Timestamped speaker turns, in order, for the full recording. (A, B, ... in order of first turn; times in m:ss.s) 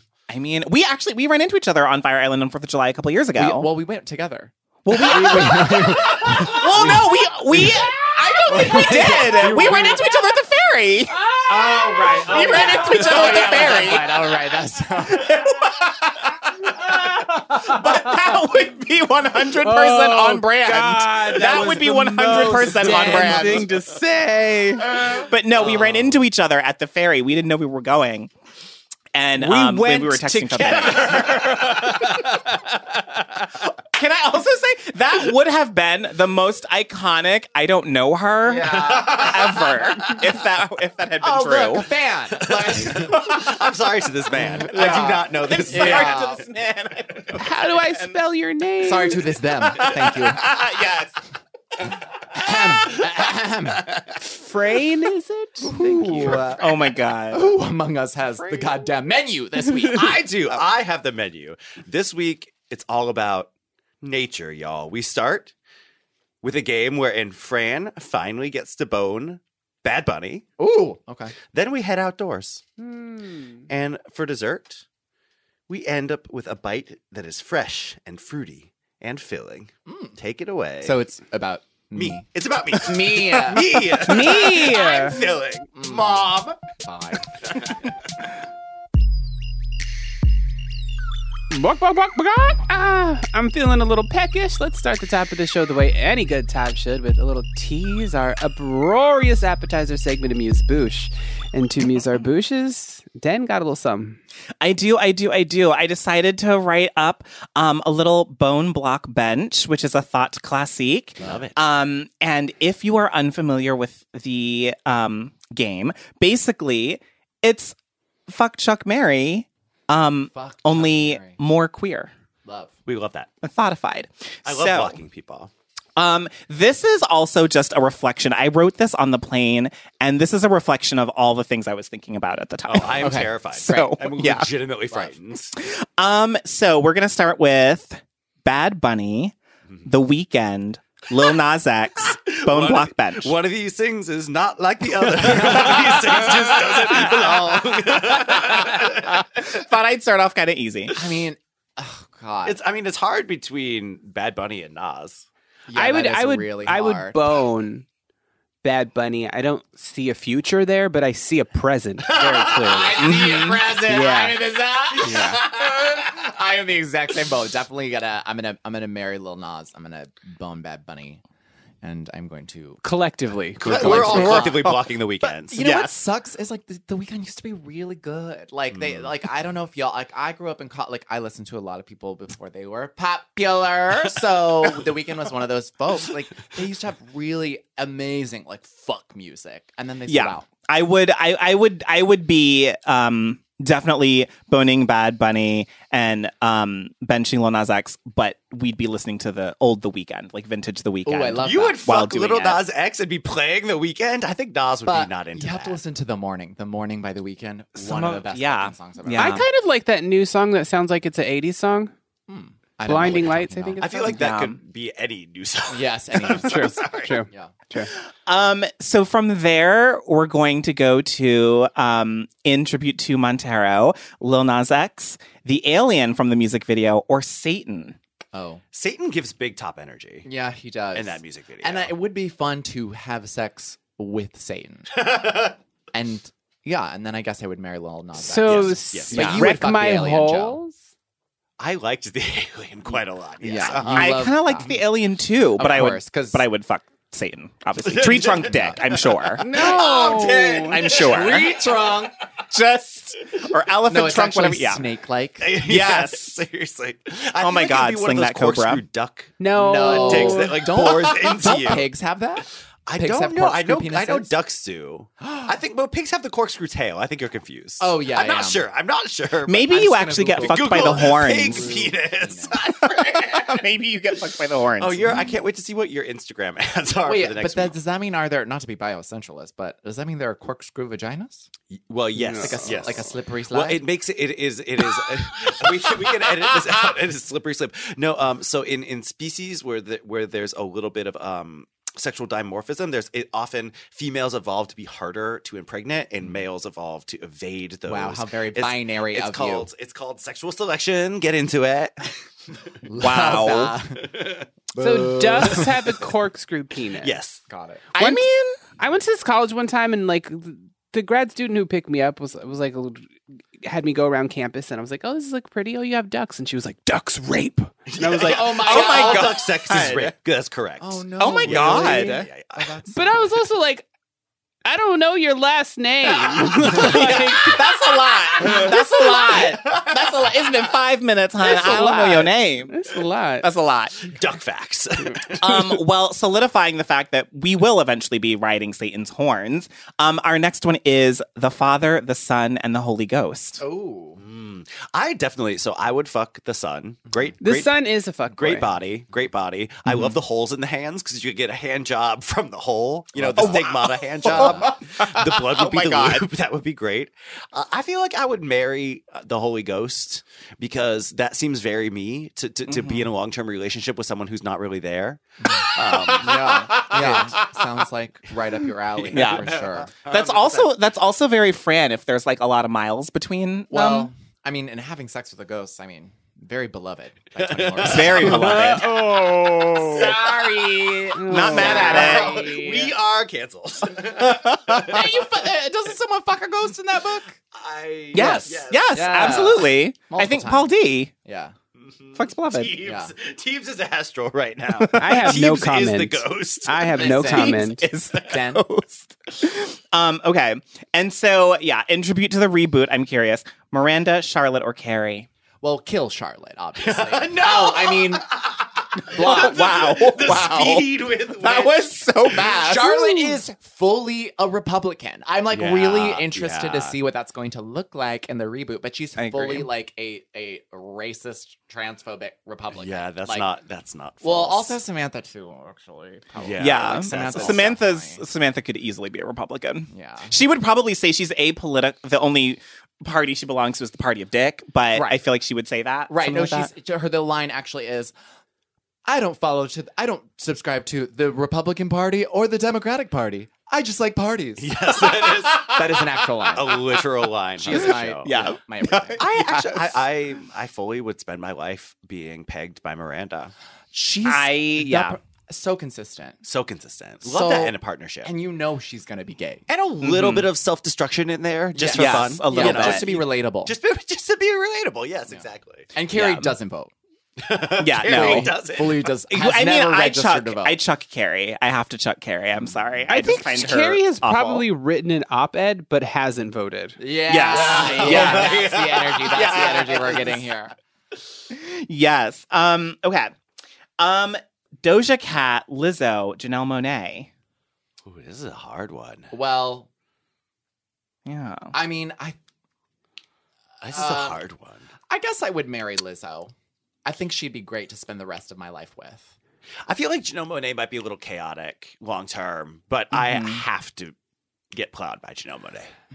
0:00.3-0:03.7 A
0:03.4-0:10.2 B
0:04.8-0:14.5 A
0:11.5-0:15.4 B
0:15.1-0:23.7 A
0:17.5-0:17.8 C
0:19.6-0:24.9 C
0:22.8-0:23.6 B
0:24.9-0:28.3 A
0:25.5-0:26.1 B
0:29.1-0:32.1 A
0:29.4-0:33.1 C
0:30.9-0:32.0 D
0:33.9-0:41.9 A
0:38.4-0:39.6 B
0:41.2-0:43.4 B
0:42.4-0:46.4 D
0:44.5-0:46.4 B
0:44.6-0:48.2 A
0:47.4-0:49.3 C
0:48.8-0:50.5 B
0:49.6-0:51.2 A
0:51.8-0:53.1 A
0:51.9-0:54.2 B
0:54.2-0:56.3 C
0:55.6-1:00.2 B
0:56.0-0:57.5 A
0:58.4-0:58.9 A
0:59.9-1:03.5 D
1:04.0-1:05.5 D
1:06.4-1:10.4 D
1:10.6-1:11.3 B
1:11.5-1:12.6 D
1:12.8-1:13.6 C
1:13.7-1:14.8 D
1:15.7-1:21.0 D
1:19.9-1:20.2 B
1:20.8-1:24.0 B
1:21.9-1:26.6 D
1:24.0-1:25.2 C
1:25.8-1:27.9 B
1:31.5-1:44.2 C
1:44.6-1:57.7 A
1:51.2-1:51.5 B
1:51.2-1:51.6 D
1:58.3-2:02.1 A
2:00.3-2:01.4 B
2:02.4-2:02.7 B
2:02.8-2:03.3 D
2:03.4-2:05.0 A
2:04.4-2:05.5 D
2:06.0-2:14.5 A
2:12.7-2:15.5 D
2:13.0-2:14.2 B
2:15.6-2:23.3 A
2:22.0-2:29.1 D
2:25.2-2:27.7 B
2:28.2-2:31.0 A
2:30.9-2:32.6 B
2:32.4-2:35.3 D
2:35.7-2:37.5 B
2:35.7-2:37.8 C
2:38.6-2:43.3 C
2:42.0-2:42.9 D
2:42.5-2:51.2 B
2:43.0-2:43.6 A
2:43.8-2:44.4 C
2:45.0-2:45.4 C
2:51.8-2:52.8 B
2:52.8-2:54.6 C
2:53.6-2:55.6 D
2:53.6-3:10.5 B
2:55.6-2:56.0 A
2:58.7-2:59.1 D
3:10.1-3:22.6 A
3:21.0-3:21.8 B
3:21.4-3:25.8 D
3:24.8-3:29.4 B
3:27.8-3:29.4 A
3:27.8-3:28.2 D
3:29.2-3:31.9 C
3:32.3-3:33.8 B
3:32.8-3:34.2 C
3:33.8-3:37.2 D
3:34.1-3:34.6 A
3:35.7-3:37.6 B
3:36.4-3:37.9 C
3:38.2-3:48.0 A
3:48.3-3:48.6 B
3:48.7-3:50.3 D
3:50.2-3:55.1 B
3:50.9-3:51.9 D
3:55.1-3:55.5 D
3:55.9-4:00.6 B
3:58.2-4:00.8 C
3:58.8-3:59.4 D
3:59.1-3:59.5 A
4:01.6-4:04.2 D
4:03.4-4:04.8 B
4:03.9-4:11.6 A
4:05.6-4:06.4 B
4:07.8-4:12.1 D
4:09.4-4:12.1 B
4:10.0-4:10.5 C
4:12.5-4:14.8 A
4:13.9-4:15.5 B
4:15.4-4:21.9 D
4:15.6-4:16.4 A
4:17.4-4:18.8 A
4:19.4-4:20.5 C
4:19.6-4:24.3 B
4:22.8-4:29.8 D
4:25.2-4:25.5 B
4:27.8-4:28.6 B
4:29.5-4:31.9 A
4:29.7-4:32.6 B
4:30.3-4:33.6 D
4:32.8-4:35.0 A
4:34.8-4:37.8 D
4:37.0-4:41.5 B
4:41.7-5:02.2 D
4:42.2-4:42.9 C
4:42.4-4:43.8 B
4:44.9-4:46.8 B
4:57.9-4:59.7 B
5:02.8-5:05.8 B
5:03.0-5:03.8 A
5:04.1-5:04.4 D
5:04.7-5:07.2 C
5:07.0-5:07.4 D
5:07.5-5:07.9 B
5:07.9-5:08.6 A
5:08.8-5:13.1 C
5:13.6-5:18.6 C
5:17.9-5:22.8 D
5:18.1-5:19.4 B
5:18.5-5:20.1 A
5:20.8-5:23.4 B
5:21.2-5:22.3 A
5:22.9-5:23.8 C
5:24.6-5:27.6 C
5:26.6-5:27.6 D
5:26.6-5:32.8 A
5:28.3-5:28.7 D
5:29.0-5:29.4 C
5:29.3-5:30.3 D
5:31.4-5:33.5 C
5:33.4-5:34.1 A
5:34.1-5:35.7 D
5:35.1-5:35.4 C
5:35.4-5:43.6 A
5:43.6-5:44.2 B
5:44.2-5:47.8 D
5:47.4-5:48.7 C
5:48.3-6:07.3 D
5:49.9-5:50.1 A
5:53.2-5:53.7 B
5:53.4-5:56.2 A
5:54.2-5:54.8 B
6:02.7-6:03.1 A
6:05.4-6:10.0 B
6:08.9-6:10.7 D
6:09.1-6:14.1 A
6:13.7-6:18.8 B
6:17.4-6:18.9 D
6:17.8-6:20.2 A
6:18.3-6:19.0 C
6:19.7-6:22.9 B
6:19.9-6:20.9 D
6:21.1-6:22.2 C
6:21.3-6:22.4 A
6:21.6-6:25.4 D
6:24.2-6:24.9 A
6:24.7-6:27.4 B
6:27.5-6:29.4 D
6:28.1-6:31.1 A
6:28.1-6:30.7 B
6:31.2-6:31.5 B
6:31.8-6:37.3 D
6:32.1-6:32.7 A
6:32.8-6:33.1 B
6:34.7-6:35.4 A
6:35.0-6:37.8 C
6:36.9-6:38.6 B
6:37.3-6:45.3 A
6:45.6-6:48.2 B
6:46.8-6:51.9 D
6:48.9-6:50.8 B
6:49.2-6:50.8 A
6:51.4-6:53.4 A
6:52.3-7:03.5 B
6:55.5-6:57.0 D
6:59.2-6:59.7 A
7:02.7-7:04.8 D
7:04.2-7:08.2 B
7:06.4-7:07.7 D
7:06.6-7:16.7 A
7:09.9-7:10.3 B
7:14.9-7:15.2 B
7:16.1-7:18.1 B
7:19.0-7:29.2 B
7:24.6-7:28.3 D
7:27.7-7:30.0 A
7:29.2-7:33.5 D
7:33.9-7:36.4 B
7:34.2-7:35.2 A
7:36.4-7:38.3 D
7:37.2-7:39.6 B
7:39.7-7:45.9 D
7:40.0-7:40.5 A
7:41.8-7:43.7 B
7:41.9-7:43.1 A
7:45.3-7:46.9 B
7:46.1-7:46.6 A
7:47.4-7:49.2 D
7:47.8-7:48.5 A
7:48.0-7:50.8 B
7:49.3-7:54.6 A
7:53.1-7:57.0 C
7:57.0-8:00.7 B
7:57.3-7:58.5 A
7:57.5-8:00.4 D
7:59.3-8:00.4 A
8:01.5-8:03.3 A
8:04.0-8:07.3 A
8:08.0-8:09.3 D
8:09.3-8:09.9 B
8:11.2-8:11.7 A
8:11.7-8:12.4 B
8:13.8-8:14.9 D
8:13.9-8:14.4 B
8:15.1-8:16.5 B
8:17.0-8:19.3 B
8:19.9-8:24.1 D
8:23.1-8:23.6 A
8:24.7-8:25.9 D